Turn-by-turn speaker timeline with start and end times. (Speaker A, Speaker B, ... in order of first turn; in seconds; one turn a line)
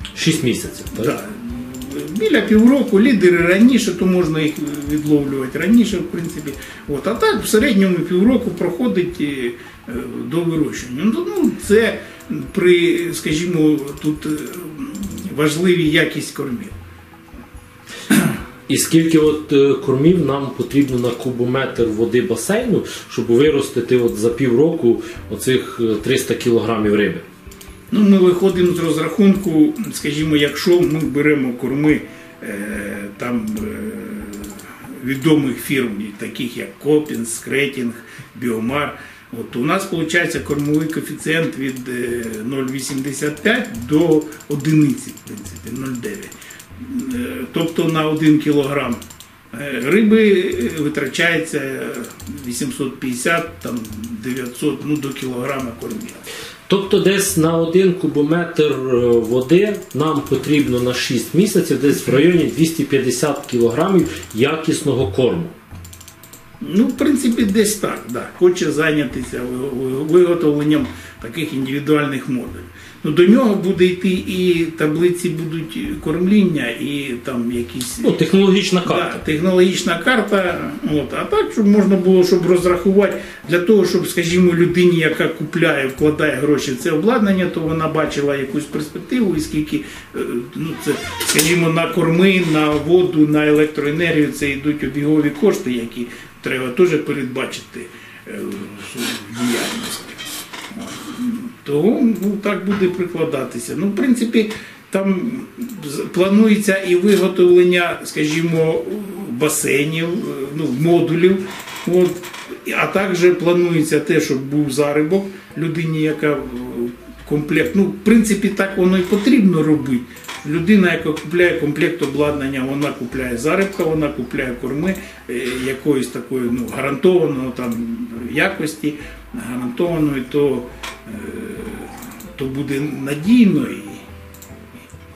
Speaker A: 0.1-1.1
Speaker B: 0.9-16.8
Speaker A: 18.7-27.2
Speaker B: 27.9-49.0
Speaker B: 49.5-56.2
Speaker A: 56.7-65.5
Speaker B: 66.6-78.1
Speaker A: 78.0-79.2
Speaker B: 78.8-100.2
Speaker B: 100.7-134.0